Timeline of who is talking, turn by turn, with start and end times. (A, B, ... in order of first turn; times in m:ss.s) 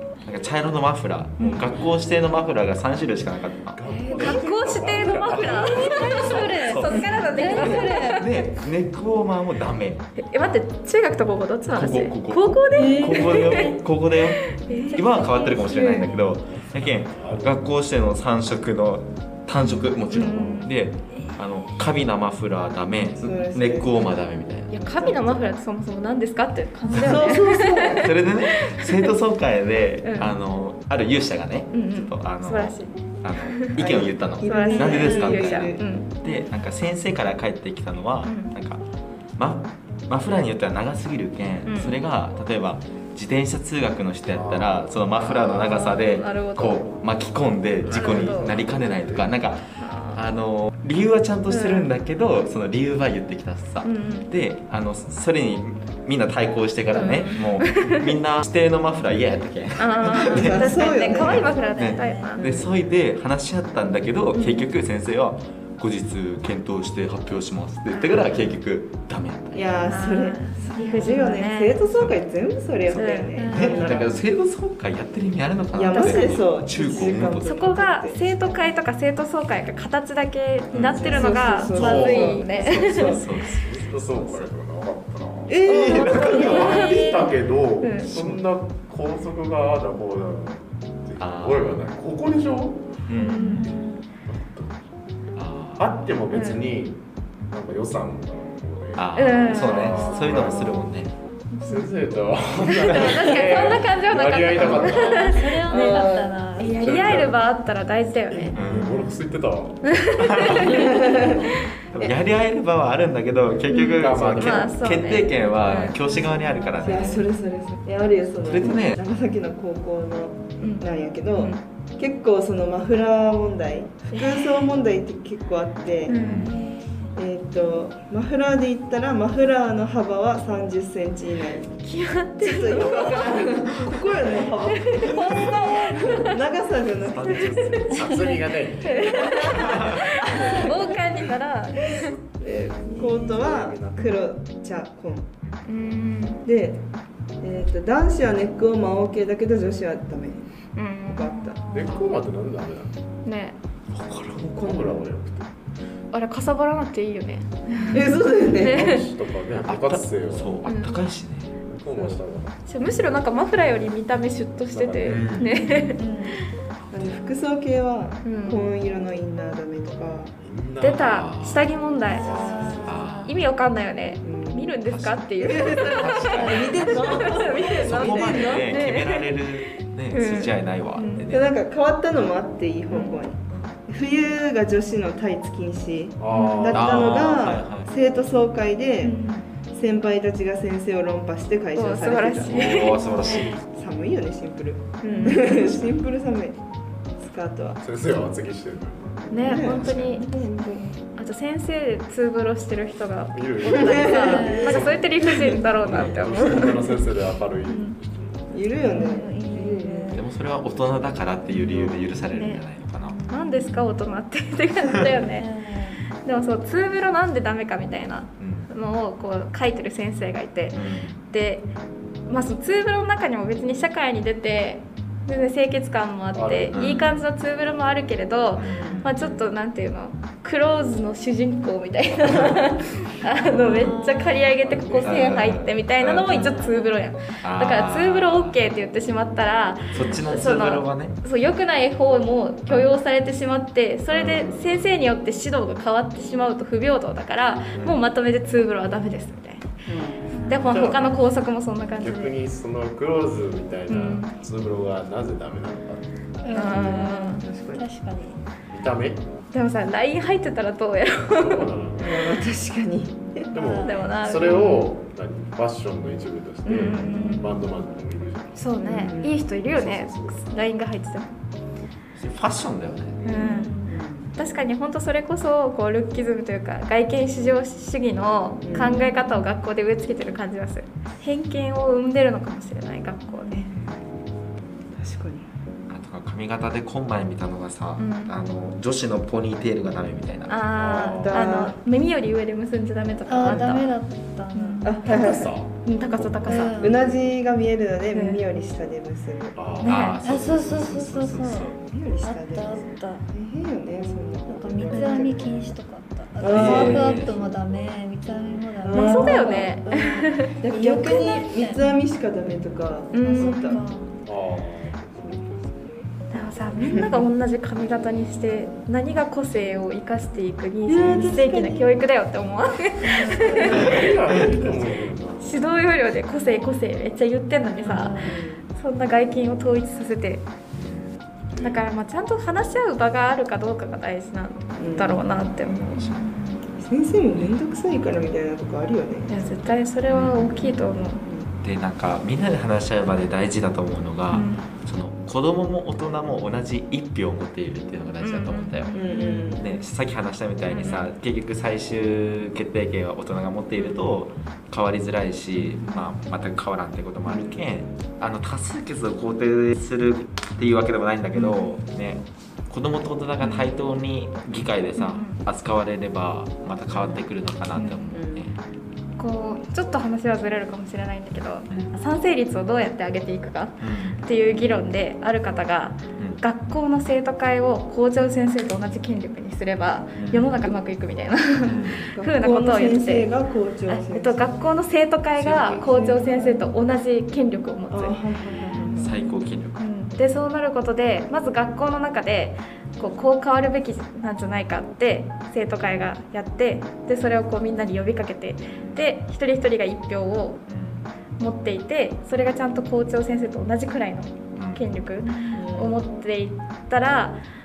0:00.2-0:04.4 A
0:03.7-0:07.3 B
0:03.9-0:08.3 C
0:05.5-0:08.3 D
0:05.9-0:10.1 A
0:10.2-0:15.1 C
0:11.7-0:25.0 A
0:12.7-0:13.8 D
0:14.7-0:16.3 D
0:15.7-0:16.1 C
0:17.1-0:17.7 B
0:19.6-0:19.9 D
0:20.1-0:20.7 C
0:21.1-0:21.7 D
0:23.2-0:24.1 E
0:24.7-0:29.2 C
0:25.0-0:25.4 E
0:26.9-0:27.1 D
0:27.0-0:28.1 E
0:28.0-0:38.8 A
0:30.0-0:30.4 C
0:31.7-0:33.8 C
0:33.8-0:35.8 E
0:34.4-0:36.2 C
0:38.2-0:38.6 C
0:39.4-1:09.8 A
0:41.6-0:42.0 C
0:44.3-0:45.0 B
0:45.2-0:46.9 C
0:47.8-0:49.4 B
0:47.9-0:48.6 C
0:49.8-0:50.2 C
0:51.5-0:51.9 C
0:53.8-0:54.3 C
0:56.9-0:58.1 C
0:59.8-1:02.4 C
1:00.0-1:01.6 E
1:01.2-1:02.4 D
1:02.4-1:02.8 E
1:04.3-1:04.7 C
1:07.9-1:08.2 C
1:09.5-1:14.2 E
1:09.8-1:11.8 C
1:12.9-1:14.0 C
1:13.0-1:17.7 A
1:13.4-1:13.9 D
1:15.7-1:18.5 E
1:15.9-1:16.2 C
1:17.4-1:23.4 C
1:20.7-1:24.5 A
1:20.8-1:23.2 E
1:21.7-1:33.0 B
1:25.5-1:26.6 E
1:25.7-1:26.9 A
1:25.9-1:27.2 C
1:26.2-1:27.3 D
1:27.8-1:28.1 C
1:28.0-1:28.4 A
1:31.2-1:31.8 A
1:33.1-1:33.6 A
1:33.2-1:34.0 D
1:33.2-1:33.7 C
1:33.7-1:34.8 B
1:35.4-1:35.9 A
1:35.8-1:41.0 B
1:36.3-1:36.8 C
1:39.0-1:41.1 A
1:39.2-1:40.6 C
1:41.6-1:41.8 C
1:41.7-1:45.4 B
1:42.7-1:46.0 C
1:44.6-1:47.2 D
1:45.7-1:46.6 E
1:46.6-1:49.2 C
1:46.6-1:47.4 B
1:48.3-1:49.0 A
1:48.5-1:50.0 B
1:49.9-1:51.4 C
1:50.2-1:51.0 A
1:50.6-1:51.3 E
1:51.9-1:57.2 A
1:53.7-1:56.0 C
1:53.9-1:54.8 B
1:56.1-1:57.1 D
1:56.8-2:06.2 E
1:58.4-1:59.0 A
2:00.6-2:01.6 C
2:04.1-2:04.7 C
2:06.1-2:06.5 C
2:06.2-2:06.6 A
2:06.2-2:07.1 D
2:07.2-2:11.7 E
2:11.8-2:14.0 C
2:12.4-2:17.7 E
2:14.6-2:16.3 C
2:15.1-2:16.1 D
2:17.1-2:22.2 B
2:17.3-2:22.2 C
2:19.0-2:20.9 E
2:22.4-2:25.3 E
2:22.9-2:24.2 B
2:25.7-2:26.4 C
2:26.4-2:26.8 E
2:27.4-2:30.4 E
2:30.8-2:31.3 C
2:31.0-2:31.6 E
2:31.2-2:32.0 D
2:31.7-2:33.0 B
2:31.8-2:32.1 A
2:33.2-2:33.6 C
2:33.9-2:34.7 A
2:34.5-2:35.5 B
2:34.6-2:35.0 E
2:36.1-2:38.1 C
2:37.7-2:38.2 D
2:37.9-2:39.0 E
2:38.4-2:40.6 B
2:38.6-2:39.1 C
2:39.7-2:41.5 A
2:40.6-2:41.1 C
2:41.6-2:42.6 B
2:41.9-2:42.2 E
2:42.7-2:46.5 C
2:44.7-2:45.7 B
2:45.1-2:45.5 A
2:45.8-2:46.4 D
2:46.9-2:50.4 E
2:48.2-2:48.7 C
2:50.4-2:51.2 B
2:50.8-3:01.3 C
2:51.0-2:51.7 A
2:52.0-2:53.3 D
2:52.2-2:53.0 B
2:52.7-2:53.3 A
2:54.2-2:54.8 E
2:54.8-3:01.5 A
2:55.4-2:58.8 E
3:01.3-3:09.2 E
3:02.9-3:03.2 C
3:03.5-3:03.8 A
3:06.2-3:07.3 B
3:06.3-3:06.7 C
3:06.7-3:07.9 A
3:09.0-3:09.5 C
3:09.7-3:13.0 E
3:11.8-3:13.4 C
3:12.4-3:13.6 A
3:12.9-3:13.6 D
3:13.6-3:16.6 E
3:15.0-3:15.4 D
3:15.0-3:15.5 C
3:17.2-3:17.8 E
3:17.8-3:20.2 B
3:19.3-3:20.3 C
3:19.4-3:21.0 E
3:20.2-3:21.0 D
3:21.2-3:27.0 C
3:23.3-3:28.7 B
3:23.7-3:25.6 E
3:24.2-3:24.9 D
3:25.8-3:26.1 D
3:26.4-3:26.6 E
3:27.7-3:28.0 C
3:28.5-3:30.2 E
3:28.8-3:30.2 D
3:30.1-3:33.2 A
3:31.8-3:32.7 C
3:33.0-3:33.9 D
3:33.3-3:35.5 C
3:35.0-3:36.1 D
3:36.2-3:41.7 C
3:38.4-3:38.7 A
3:40.7-3:41.2 A
3:42.3-4:09.7 C
3:46.3-3:47.1 B
3:46.7-3:47.2 A
3:48.6-3:49.4 A
3:48.7-3:49.0 E
3:53.4-3:54.0 B
3:53.7-3:54.6 D
3:54.6-3:55.4 B
3:55.0-3:56.7 A
3:56.2-3:57.0 D
3:57.4-3:58.6 A
3:59.9-4:01.1 A
4:04.1-4:04.7 A
4:07.8-4:08.0 A
4:09.9-4:10.3 E
4:10.3-4:10.9 D
4:10.5-4:12.3 C
4:10.6-4:11.2 B
4:12.0-4:16.4 B
4:13.9-4:14.3 C
4:16.4-4:18.4 D
4:16.5-4:17.4 C
4:16.5-4:17.9 E
4:18.7-4:19.2 B
4:19.5-4:21.7 C
4:21.3-4:22.4 B
4:22.0-4:23.5 E
4:23.5-4:24.1 D
4:23.5-4:28.7 B
4:23.8-4:24.9 C
4:24.4-4:24.9 A
4:26.6-4:27.5 C
4:27.0-4:27.4 D
4:28.6-4:31.4 C
4:28.8-4:29.4 E
4:29.5-4:30.6 B
4:32.2-4:33.2 A
4:33.2-4:33.8 C
4:33.3-4:34.0 D
4:33.8-4:34.3 E
4:34.4-4:43.7 C
4:38.6-4:39.1 E
4:43.7-4:44.1 A
4:45.0-4:45.4 E
4:45.9-4:50.6 A
4:48.0-4:48.3 C
4:50.5-4:53.9 C
4:50.7-4:51.5 B
4:50.9-4:51.8 E
4:53.3-4:55.0 D
4:54.5-4:56.8 C
4:54.8-4:55.5 E
4:55.1-4:56.6 B
4:56.4-4:59.6 E
4:56.5-4:57.1 D
4:58.1-4:58.4 C
4:59.6-5:00.7 B
4:59.8-5:03.3 D
4:59.9-5:01.8 A
5:01.8-5:05.7 E
5:04.1-5:11.9 D
5:06.4-5:07.4 E
5:06.5-5:07.4 A
5:08.8-5:09.8 E
5:08.9-5:10.5 C
5:10.5-5:13.8 E
5:13.1-5:13.8 C
5:13.3-5:14.1 D
5:14.2-5:15.8 B
5:16.3-5:24.5 C
5:16.8-5:17.3 E
5:20.9-5:22.0 E
5:21.0-5:21.3 D
5:23.0-5:23.7 D
5:23.4-5:24.8 E
5:23.6-5:25.7 B
5:25.4-5:30.5 C
5:27.8-5:28.4 D
5:28.2-5:28.6 E
5:30.7-5:31.2 A
5:31.5-5:31.9 B
5:31.6-5:36.3 C
5:34.8-5:35.3 E
5:36.0-5:36.3 A
5:36.1-5:36.6 D
5:36.7-5:39.6 E
5:37.3-5:37.6 A
5:39.3-5:41.2 C
5:40.1-5:40.7 A
5:41.2-5:41.5 E
5:41.6-5:49.0 A
5:44.3-5:44.6 C
5:48.2-5:49.8 C
5:48.9-5:49.6 E
5:49.6-6:08.6 A
5:50.7-5:51.1 C
5:53.8-5:54.1 C
5:55.7-5:56.1 C
5:57.3-5:57.6 C
6:01.3-6:01.8 C
6:03.4-6:03.8 C
6:05.0-6:05.4 C
6:07.8-6:08.2 C
6:08.1-6:08.4 E
6:09.2-6:23.3 C
6:13.8-6:14.2 A
6:20.2-6:20.6 A
6:21.6-6:22.1 A
6:22.1-6:24.6 E
6:23.9-6:29.2 C
6:25.4-6:25.8 A
6:25.9-6:26.7 E
6:27.9-6:29.1 E
6:28.8-6:29.8 A
6:29.8-6:40.6 C
6:38.8-6:39.1 A
6:40.7-6:41.0 A
6:41.4-6:47.4 C
6:44.6-6:44.9 A
6:45.2-6:45.7 D
6:45.5-6:46.0 E